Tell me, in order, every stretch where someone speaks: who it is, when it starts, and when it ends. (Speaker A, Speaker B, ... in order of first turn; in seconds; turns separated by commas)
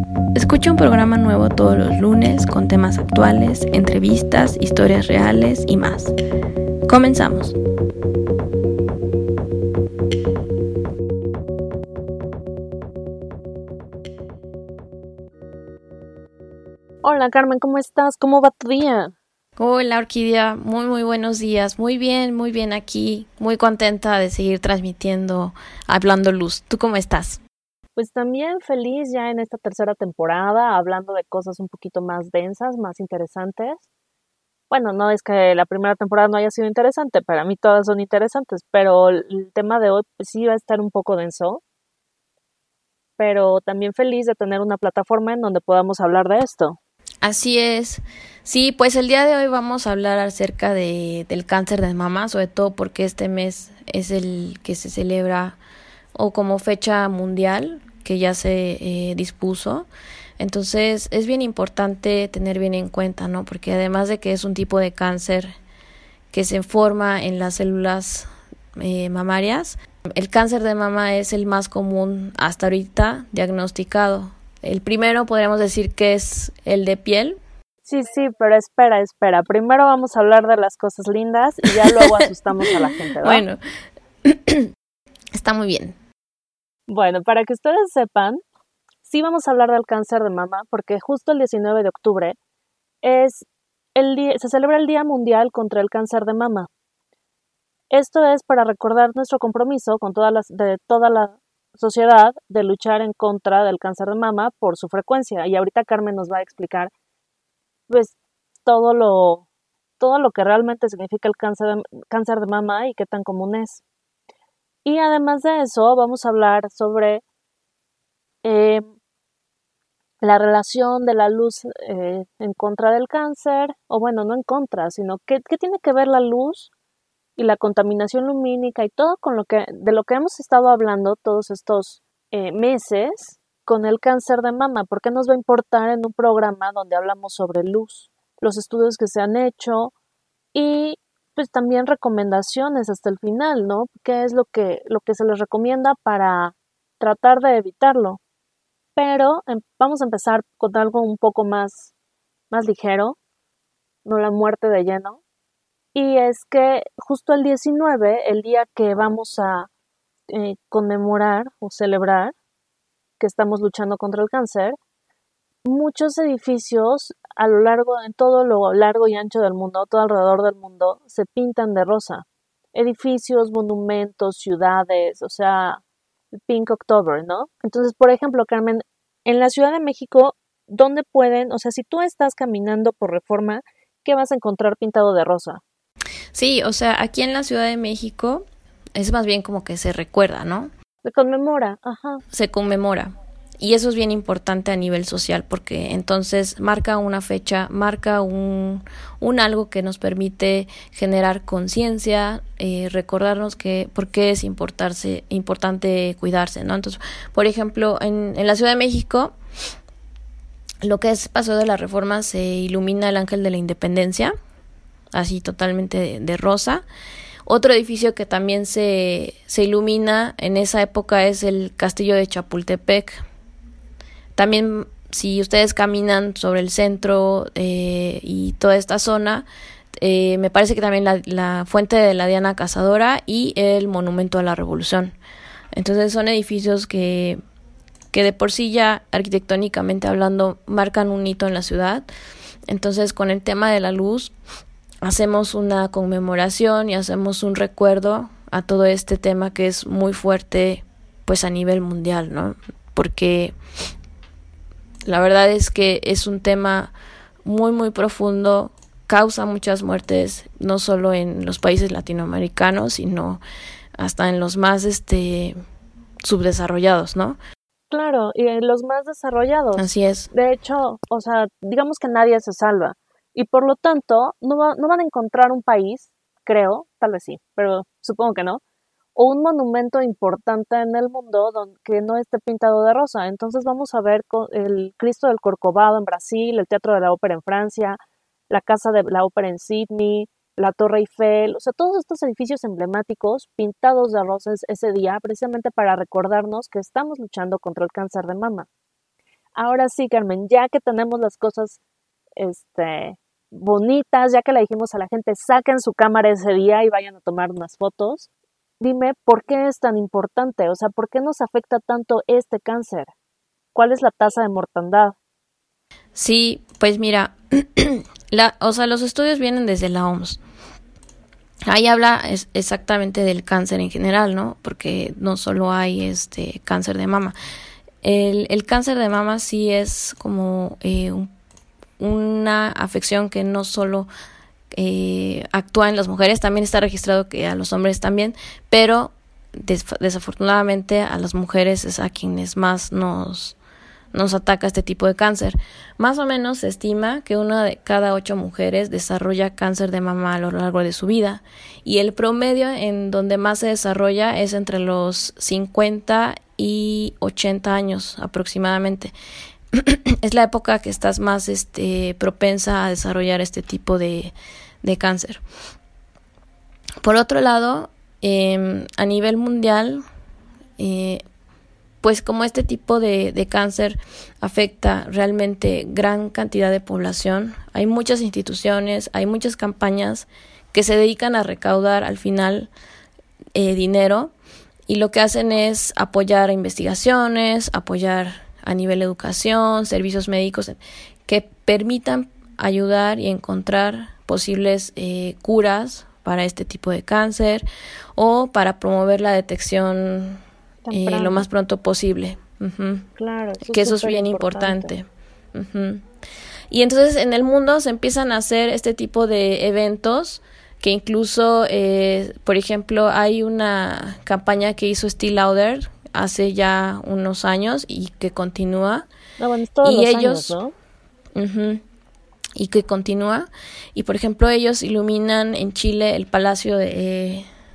Speaker A: 0.3-6.1, Speaker A: 6.9-7.5, Speaker B: 17.0-19.1, Speaker A: 19.6-27.4, Speaker B: 27.9-33.8, Speaker B: 34.7-41.6, Speaker B: 43.2-46.8, Speaker A: 47.2-55.6, Speaker A: 56.1-59.9, Speaker A: 60.4-65.5, Speaker A: 66.3-77.4, Speaker B: 77.8-83.4, Speaker A: 83.2-83.6, Speaker A: 84.2-84.7, Speaker A: 85.3-86.0, Speaker B: 86.9-88.4, Speaker B: 89.0-92.3, Speaker B: 93.0-96.7, Speaker B: 97.9-106.9, Speaker B: 107.9-109.4, Speaker B: 110.0-113.8, Speaker B: 114.8-117.2, Speaker B: 118.4-118.9, Speaker B: 120.2-126.7, Speaker B: 127.4-139.9, Speaker B: 140.5-148.2, Speaker B: 148.9-151.9, Speaker B: 152.5-153.2, Speaker B: 154.0-155.2, Speaker B: 155.9-159.7, Speaker B: 160.3-162.3, Speaker B: 163.2-164.8, Speaker B: 165.6-175.8, Speaker B: 176.3-185.6, Speaker A: 186.3-190.7, Speaker B: 191.0-192.2, Speaker A: 192.3-209.3, Speaker A: 210.8-214.3, Speaker A: 215.1-216.8, Speaker A: 217.4-223.2, Speaker A: 224.3-235.1, Speaker A: 235.7-237.4, Speaker A: 238.1-242.1, Speaker A: 242.7-244.3, Speaker A: 245.0-253.5, Speaker A: 255.1-263.4, Speaker A: 264.0-265.6, Speaker A: 266.2-267.4, Speaker B: 267.9-278.6, Speaker A: 269.8-270.3, Speaker B: 279.1-288.0, Speaker B: 288.5-298.7, Speaker B: 299.5-301.8, Speaker B: 302.4-308.3, Speaker B: 308.8-313.1, Speaker B: 313.7-315.1, Speaker A: 316.1-320.4, Speaker A: 321.7-327.3, Speaker A: 328.0-331.3, Speaker A: 332.0-334.1, Speaker A: 334.7-343.6, Speaker A: 344.1-359.1, Speaker A: 359.7-365.4, Speaker A: 367.0-370.0, Speaker A: 370.8-371.2, Speaker A: 372.0-382.7, Speaker A: 383.5-384.3, Speaker A: 384.9-400.4, Speaker B: 400.8-401.5, Speaker A: 400.9-403.1, Speaker B: 403.2-404.9, Speaker A: 403.7-406.0, Speaker A: 406.7-419.1, Speaker B: 419.4-420.7, Speaker A: 419.8-420.6, Speaker A: 421.3-421.8, Speaker A: 422.6-427.4